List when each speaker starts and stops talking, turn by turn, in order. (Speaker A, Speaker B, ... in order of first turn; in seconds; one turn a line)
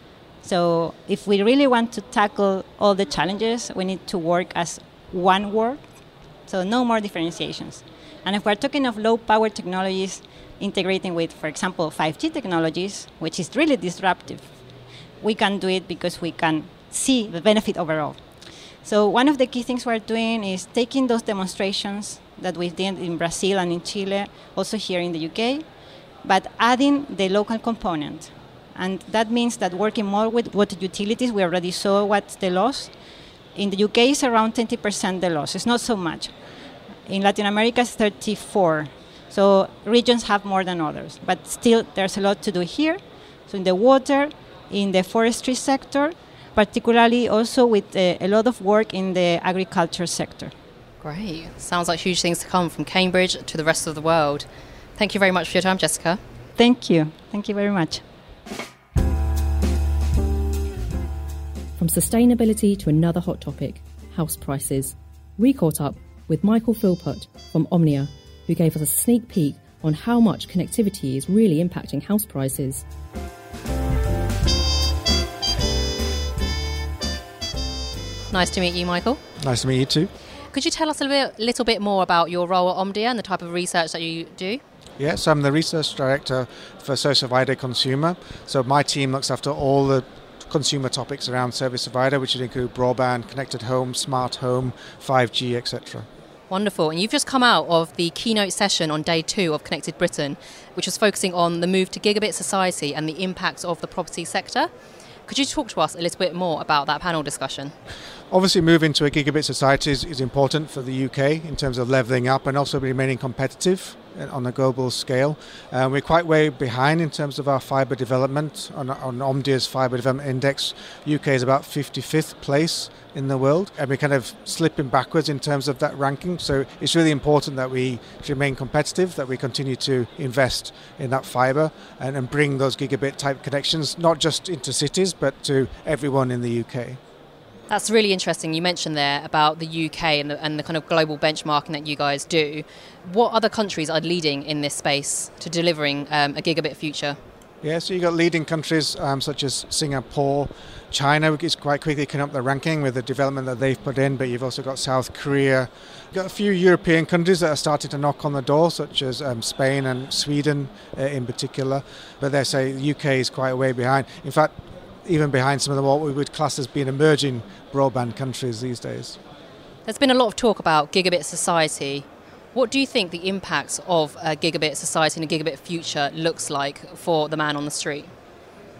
Speaker A: 0.4-5.8
Speaker A: 6.5-14.5
Speaker A: 15.2-18.2
Speaker A: 18.8-25.6
Speaker A: 26.2-32.9
Speaker A: 33.5-36.3
Speaker A: 37.1-43.0
Speaker A: 43.5-50.5
Speaker B: 51.0-54.5
Speaker B: 55.0-56.2
Speaker A: 56.6-58.0
Speaker C: 61.8-72.8
Speaker B: 78.3-79.2
Speaker D: 79.4-80.1
Speaker B: 80.5-84.6
Speaker D: 85.0-96.0
Speaker B: 96.5-104.7
Speaker B: 105.3-107.7
Speaker D: 108.3-137.0
Speaker B: 137.7-147.2
Speaker D: 147.6-164.5
Speaker D: 165.0-169.2
Speaker B: 169.8-178.1